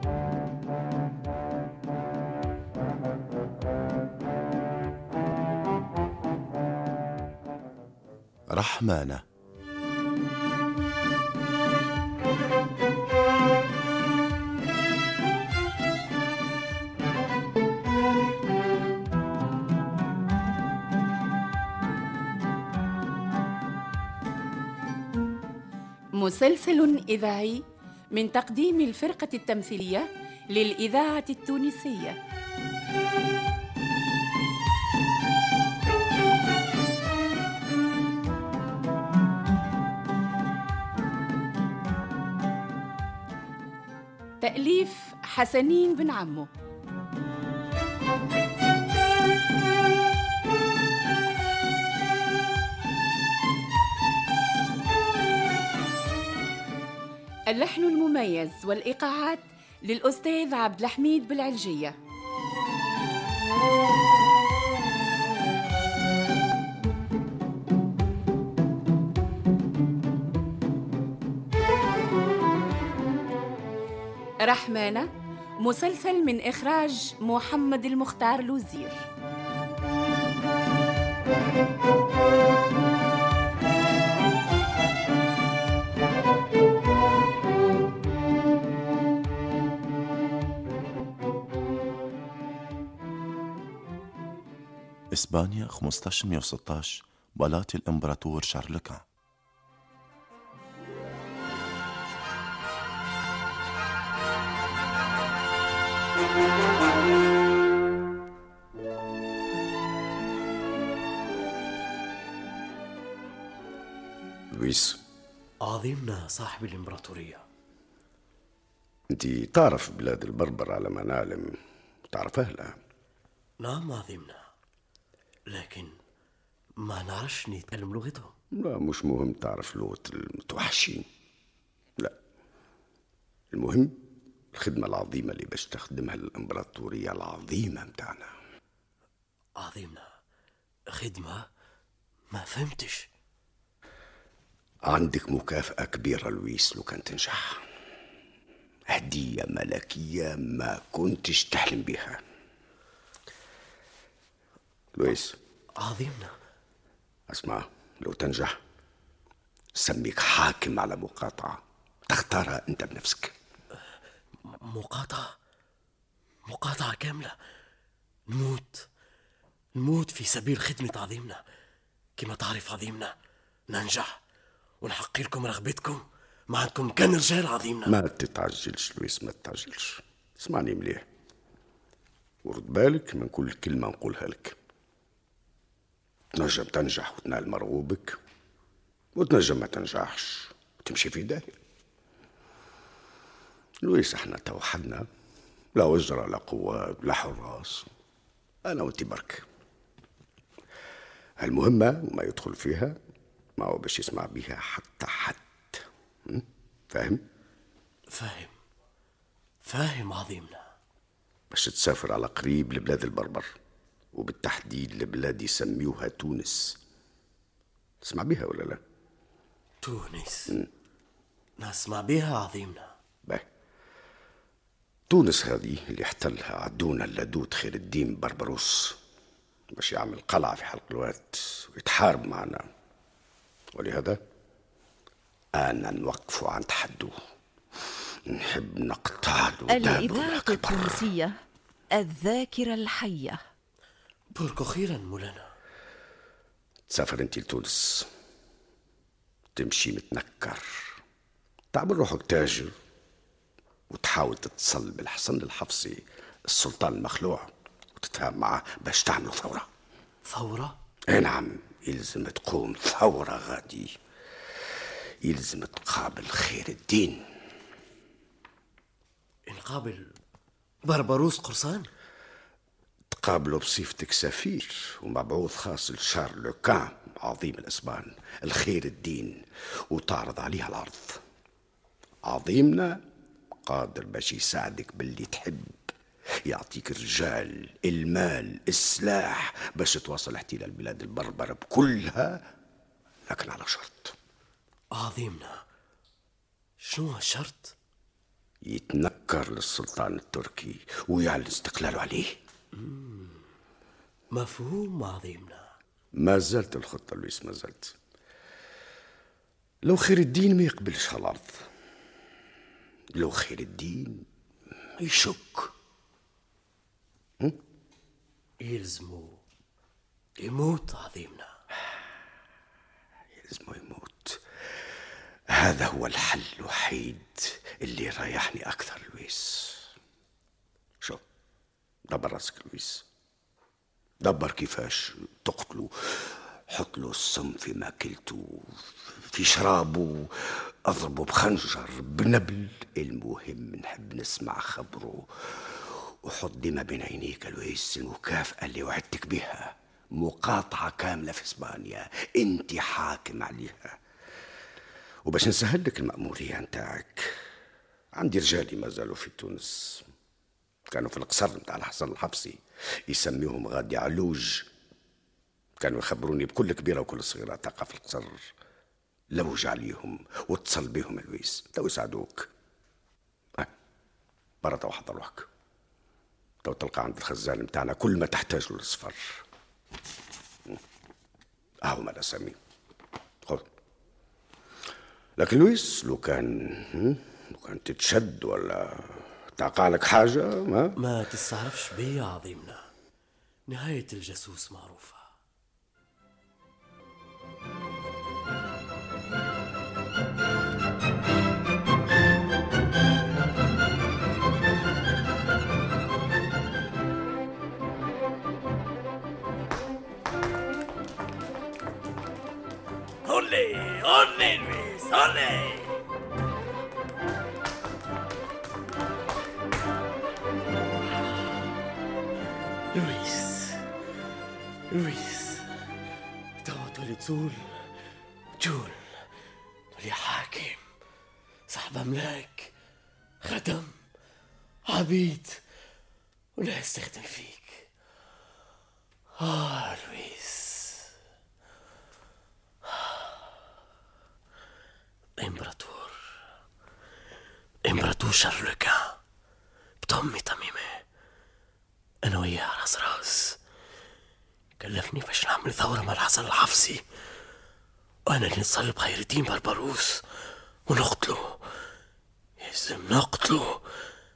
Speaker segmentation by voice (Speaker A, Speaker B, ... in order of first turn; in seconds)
Speaker A: 8.5-9.2, 95.1-99.0
Speaker B: 26.1-32.2, 44.4-46.5, 57.5-62.0, 74.4-79.1
Speaker C: 114.5-115.0, 119.1-121.5, 122.1-122.7, 128.5-131.1, 133.5-134.0, 134.5-138.3, 144.9-147.6, 148.9-152.2, 154.9-155.4, 157.3-158.5, 159.8-161.6, 162.1-163.3, 177.8-181.0, 182.4-184.6, 186.4-188.2, 189.2-191.5, 193.8-195.0, 195.8-197.8, 198.7-199.4, 201.4-202.9, 203.6-207.2, 211.5-213.5, 214.1-216.8, 218.0-218.8, 225.1-229.0, 229.8-232.6, 233.7-234.2, 235.6-237.1, 238.3-241.1, 246.9-248.1, 249.6-250.9, 251.7-252.7, 253.9-259.7, 261.1-264.0, 265.2-267.3, 273.1-281.2, 282.2-283.0, 283.6-285.9, 286.4-292.4, 293.3-294.1, 298.6-302.3, 306.1-307.9, 309.8-311.6, 313.1-314.2, 315.0-315.7, 323.4-324.4, 325.5-329.9, 332.1-333.1, 334.2-354.0, 355.2-357.3, 358.1-360.1, 360.9-364.7, 365.8-368.4, 369.3-372.5, 374.6-375.5, 376.6-379.4, 381.8-382.6, 385.4-390.9
Speaker D: 115.6-117.4, 123.6-124.5, 125.5-126.0, 126.8-128.3, 139.6-140.1, 140.9-141.5, 142.3-143.1, 155.8-156.3, 164.5-165.3, 166.4-167.3, 168.3-168.9, 169.8-171.4, 172.2-173.1, 173.7-174.2, 174.8-177.9, 208.1-208.5, 209.6-210.7, 219.8-220.6, 221.6-222.9, 244.3-245.5, 260.2-260.8, 269.5-270.1, 270.8-271.9, 294.9-295.6, 296.8-297.7, 302.8-303.4, 304.3-305.7, 318.6-319.4, 320.4-321.5, 391.0-392.9, 393.7-395.3, 413.2-416.0, 422.9-423.8, 424.9-425.7, 426.6-427.9, 428.6-429.2, 429.9-430.8, 431.7-432.7, 433.4-434.0, 434.9-435.6, 436.6-437.9, 439.4-441.1, 445.4-446.2, 447.8-449.1, 450.0-451.0, 452.2-453.6, 454.8-457.0, 458.2-460.2, 460.9-461.6, 462.6-463.9
Speaker E: 239.7-241.3, 241.9-243.4